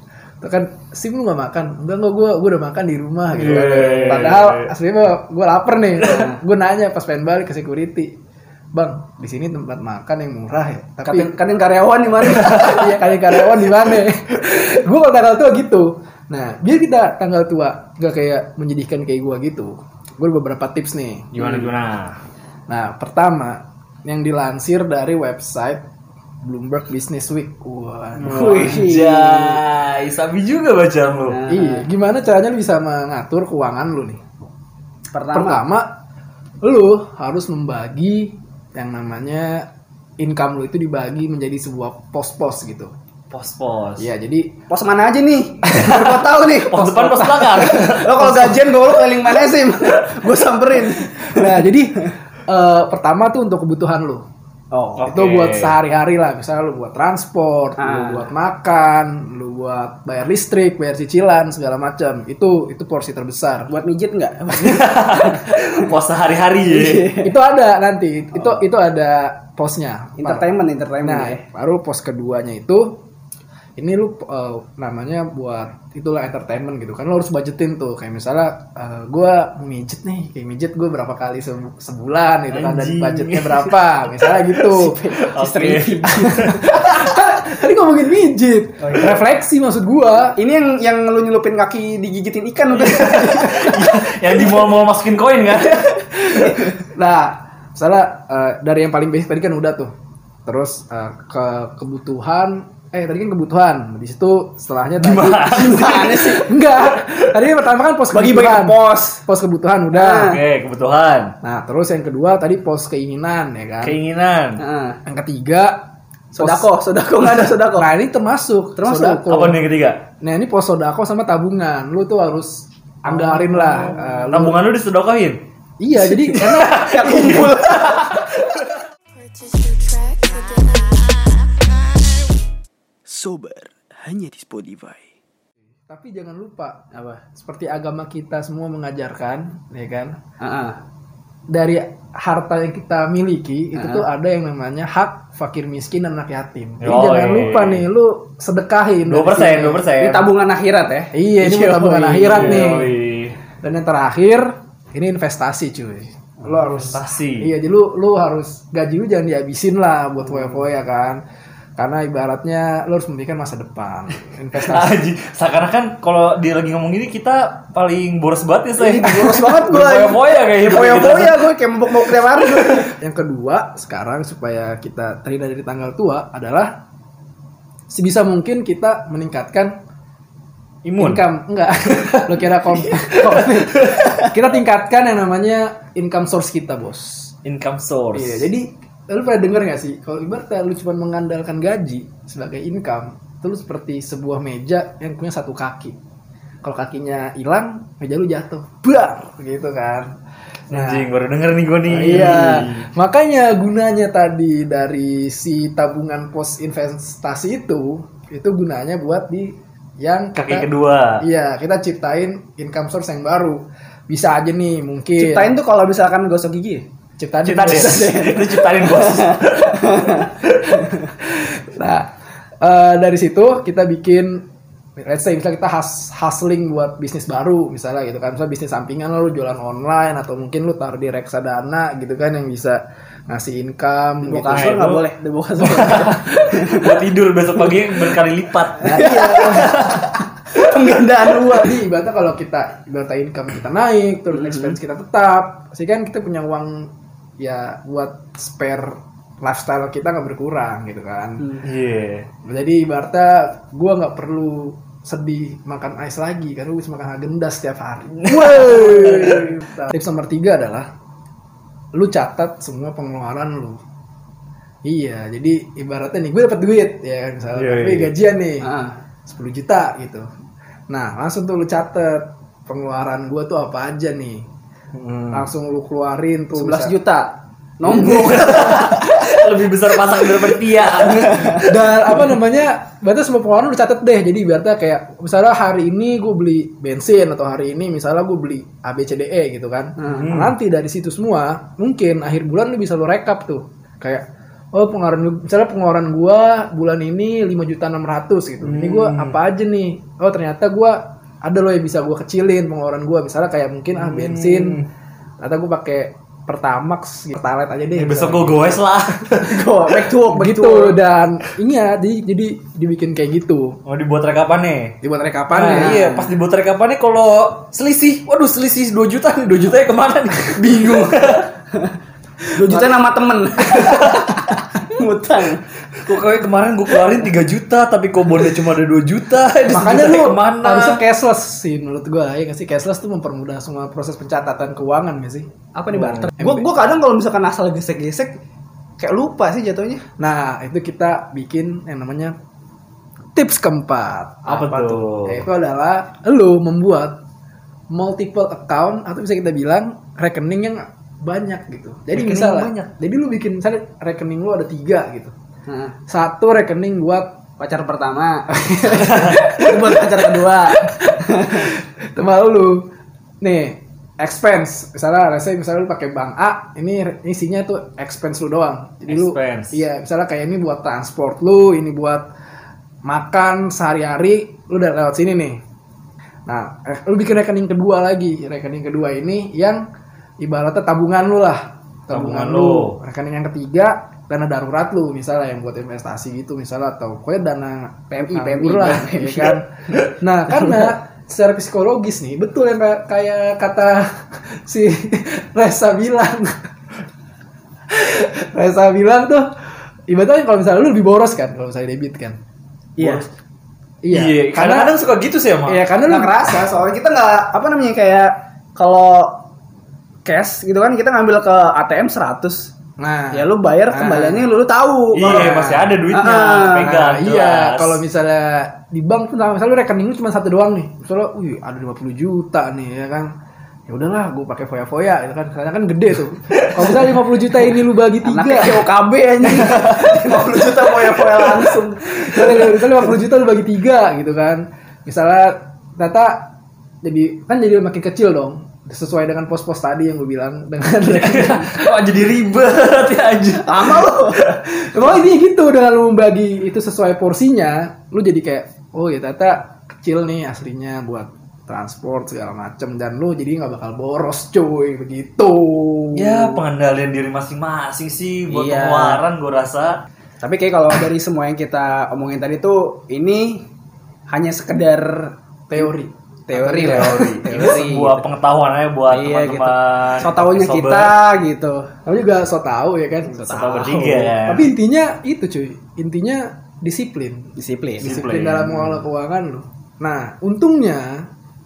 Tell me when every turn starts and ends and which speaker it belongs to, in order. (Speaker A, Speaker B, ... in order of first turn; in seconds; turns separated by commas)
Speaker A: 0.4-8.2, Speaker B: 3.3-4.7, Speaker A: 8.7-11.3, Speaker C: 11.0-12.9, Speaker A: 12.2-21.3, Speaker B: 21.3-22.2, Speaker A: 22.7-25.8, Speaker A: 26.4-28.8, Speaker B: 28.2-31.4, Speaker C: 28.3-29.5, Speaker C: 31.3-31.9, Speaker A: 31.5-34.2, Speaker C: 35.1-35.6, Speaker A: 35.3-35.9, Speaker A: 36.6-39.7, Speaker A: 40.2-42.9, Speaker B: 43.3-44.1, Speaker A: 44.0-44.6, Speaker C: 44.7-46.9, Speaker B: 45.7-48.6, Speaker A: 46.8-48.5, Speaker C: 47.6-51.6, Speaker A: 51.0-54.2, Speaker C: 54.7-55.0, Speaker B: 55.0-55.7, Speaker A: 55.0-63.7, Speaker C: 57.8-58.3, Speaker C: 63.7-65.4, Speaker B: 64.6-67.1, Speaker C: 66.7-67.3, Speaker A: 67.2-70.5, Speaker C: 70.2-71.4, Speaker A: 71.0-73.0, Speaker A: 73.8-85.0, Speaker B: 82.5-84.5, Speaker C: 84.8-86.3, Speaker B: 85.2-86.6, Speaker A: 86.1-90.4, Speaker B: 88.8-89.2, Speaker C: 90.4-93.8, Speaker B: 92.7-96.3, Speaker C: 96.5-96.7, Speaker A: 96.8-99.9, Speaker A: 100.5-110.3, Speaker B: 105.0-106.4, Speaker C: 105.6-106.5, Speaker C: 108.1-109.2, Speaker C: 109.9-110.4, Speaker B: 110.3-111.3, Speaker A: 111.4-114.0, Speaker B: 113.8-114.6, Speaker C: 114.6-115.0, Speaker A: 115.0-115.8, Speaker C: 116.4-117.8, Speaker A: 116.4-116.7, Speaker A: 117.8-119.6, Speaker C: 118.8-119.2, Speaker B: 119.3-120.0, Speaker A: 120.2-124.6, Speaker B: 123.2-125.4, Speaker A: 125.8-126.8, Speaker B: 126.3-128.6, Speaker C: 126.8-128.0, Speaker D: 127.2-127.8, Speaker E: 129.1-131.4, Speaker D: 133.1-135.0, Speaker A: 135.9-136.8, Speaker C: 136.9-137.2, Speaker A: 137.3-140.1, Speaker C: 140.4-140.8, Speaker A: 141.5-149.9, Speaker C: 143.8-144.0, Speaker B: 146.8-147.8, Speaker B: 149.1-150.3, Speaker C: 150.0-152.8, Speaker A: 151.1-152.9, Speaker B: 152.3-153.4, Speaker A: 153.6-161.2, Speaker B: 156.7-157.5, Speaker A: 161.8-165.0, Speaker B: 164.6-172.8, Speaker C: 168.8-172.9, Speaker A: 172.9-176.8, Speaker A: 177.9-179.8, Speaker B: 180.8-181.2, Speaker A: 181.0-187.3, Speaker B: 187.4-188.5, Speaker A: 188.1-196.0, Speaker A: 196.6-200.1, Speaker B: 200.7-202.9, Speaker A: 200.7-201.1, Speaker A: 201.9-215.6, Speaker B: 210.3-211.2, Speaker C: 215.2-216.8, Speaker A: 217.2-218.3, Speaker B: 217.4-220.6, Speaker C: 217.8-220.2, Speaker A: 221.2-224.4, Speaker A: 225.0-234.8, Speaker C: 234.2-236.8, Speaker B: 234.5-235.1, Speaker B: 235.6-240.1, Speaker A: 238.8-239.8, Speaker C: 238.9-239.6, Speaker C: 240.5-241.8, Speaker A: 241.5-251.6, Speaker B: 251.6-252.3, Speaker A: 252.4-260.9, Speaker B: 258.3-259.6, Speaker A: 261.9-263.8, Speaker A: 264.8-268.7, Speaker B: 267.5-268.1, Speaker C: 268.6-268.9, Speaker A: 269.2-270.2, Speaker A: 270.9-274.5, Speaker B: 274.9-275.5, Speaker A: 275.3-276.9, Speaker C: 276.6-279.0, Speaker B: 277.8-281.7, Speaker C: 281.1-281.6, Speaker A: 281.6-304.8, Speaker B: 290.1-290.5, Speaker B: 298.6-299.4, Speaker B: 303.9-304.9, Speaker A: 305.4-308.9, Speaker B: 308.0-310.0, Speaker C: 309.4-310.9, Speaker A: 310.3-313.8, Speaker B: 313.9-314.9, Speaker A: 315.0-316.0, Speaker B: 315.5-321.5, Speaker C: 315.7-316.3, Speaker C: 322.6-324.3, Speaker A: 322.6-323.0, Speaker D: 323.6-324.1, Speaker B: 323.8-324.4, Speaker C: 324.9-325.6, Speaker B: 326.0-331.0, Speaker A: 329.7-335.5, Speaker C: 335.7-338.4, Speaker B: 335.9-336.3, Speaker A: 336.4-336.7, Speaker C: 339.0-340.0, Speaker A: 340.2-342.3, Speaker A: 343.3-347.2, Speaker B: 344.5-345.4, Speaker A: 347.9-355.3, Speaker B: 352.1-352.9, Speaker C: 355.7-355.9, Speaker A: 356.1-357.4, Speaker C: 357.6-358.4, Speaker A: 358.5-362.9, Speaker C: 359.1-361.6, Speaker A: 363.4-372.3, Speaker B: 369.1-369.8, Speaker A: 373.0-375.6, Speaker A: 376.5-379.8, Speaker A: 380.4-396.6, Speaker B: 382.1-382.9, Speaker C: 388.1-389.9, Speaker C: 390.6-390.9, Speaker A: 397.9-399.5, Speaker A: 400.1-402.4, Speaker B: 403.0-403.3, Speaker A: 403.0-403.2, Speaker A: 404.0-405.0, Speaker B: 404.1-405.8, Speaker A: 405.6-406.5, Speaker C: 406.1-409.4, Speaker C: 410.2-412.7, Speaker A: 413.0-414.5, Speaker C: 413.3-415.5, Speaker B: 415.1-418.0, Speaker A: 415.2-416.0, Speaker C: 416.1-416.9, Speaker A: 416.7-423.3, Speaker A: 423.9-428.8, Speaker C: 428.3-433.0, Speaker A: 431.8-436.5, Speaker A: 437.0-441.9, Speaker B: 441.1-444.4, Speaker C: 443.6-444.4, Speaker A: 444.4-456.6, Speaker B: 456.1-460.0, Speaker C: 458.5-459.2, Speaker C: 460.4-463.6, Speaker C: 464.3-465.9, Speaker A: 465.7-467.6, Speaker C: 466.5-468.3, Speaker B: 466.6-471.2, Speaker C: 469.1-471.9, Speaker A: 472.1-481.2, Speaker C: 473.4-473.9, Speaker B: 473.5-474.7, Speaker C: 477.6-478.1, Speaker B: 478.0-479.0